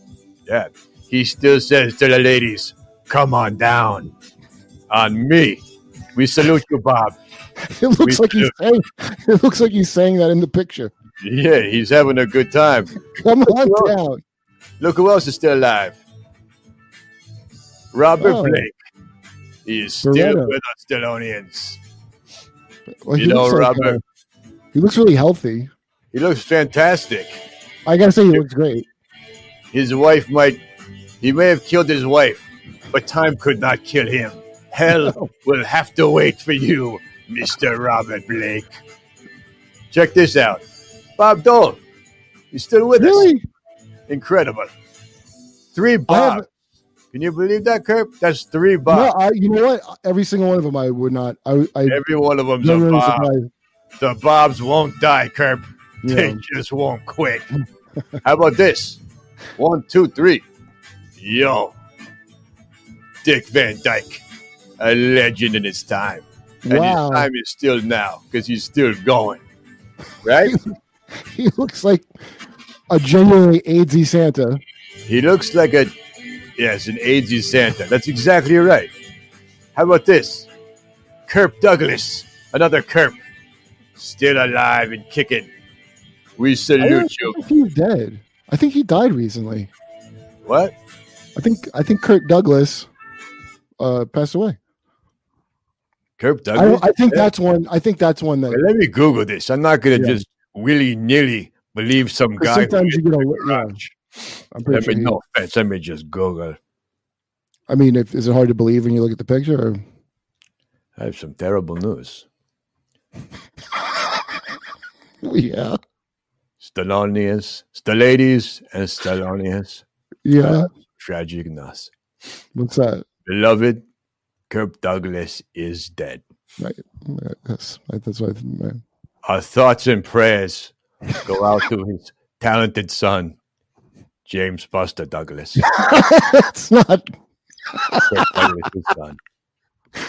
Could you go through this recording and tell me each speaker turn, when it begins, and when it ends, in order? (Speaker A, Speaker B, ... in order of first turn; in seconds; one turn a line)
Speaker A: 0.5-4.1
Speaker A: 4.9-5.6
Speaker A: 6.1-7.2
Speaker B: 7.7-10.9
Speaker A: 8.0-8.6
Speaker A: 11.2-12.9
Speaker B: 13.2-14.2
Speaker A: 13.4-13.9
Speaker A: 14.8-16.0
Speaker A: 17.9-18.7
Speaker B: 18.2-18.7
Speaker A: 19.6-21.8
Speaker B: 20.0-20.5
Speaker B: 23.0-24.0
Speaker A: 23.1-24.0
Speaker B: 24.7-25.7
Speaker A: 26.1-27.4
Speaker B: 27.9-28.9
Speaker A: 29.7-30.6
Speaker A: 31.2-38.8
Speaker B: 34.9-35.3
Speaker A: 39.9-40.6
Speaker A: 41.2-41.8
Speaker A: 42.5-43.3
Speaker B: 43.0-43.4
Speaker A: 44.1-44.7
Speaker A: 45.7-46.5
Speaker B: 46.1-46.4
Speaker A: 47.1-49.1
Speaker B: 48.9-52.0
Speaker A: 51.9-53.3
Speaker B: 52.6-53.5
Speaker A: 54.0-57.5
Speaker B: 56.0-56.4
Speaker A: 58.2-59.0
Speaker A: 59.6-60.5
Speaker A: 61.2-61.7
Speaker A: 63.2-64.2
Speaker A: 64.8-69.4
Speaker B: 66.7-67.3
Speaker A: 70.2-70.5
Speaker B: 70.4-70.7
Speaker B: 71.3-72.1
Speaker B: 72.9-74.6
Speaker A: 75.0-75.9
Speaker A: 76.5-78.9
Speaker A: 79.7-80.5
Speaker A: 81.3-83.2
Speaker A: 84.0-85.5
Speaker A: 86.4-87.4
Speaker B: 86.8-89.7
Speaker A: 90.4-90.7
Speaker B: 91.3-92.9
Speaker B: 93.8-94.6
Speaker A: 96.2-97.3
Speaker B: 96.5-98.6
Speaker A: 98.5-103.9
Speaker B: 99.9-100.2
Speaker B: 102.4-103.8
Speaker B: 104.5-105.2
Speaker A: 104.7-106.6
Speaker B: 107.7-109.8
Speaker A: 111.0-112.2
Speaker B: 115.2-115.8
Speaker A: 116.6-119.8
Speaker B: 120.2-120.7
Speaker A: 120.3-121.9
Speaker B: 122.5-123.0
Speaker A: 123.2-123.8
Speaker A: 124.5-126.2
Speaker B: 126.6-128.8
Speaker A: 129.2-133.4
Speaker A: 134.2-135.7
Speaker B: 135.7-137.1
Speaker B: 137.7-138.5
Speaker A: 138.1-139.2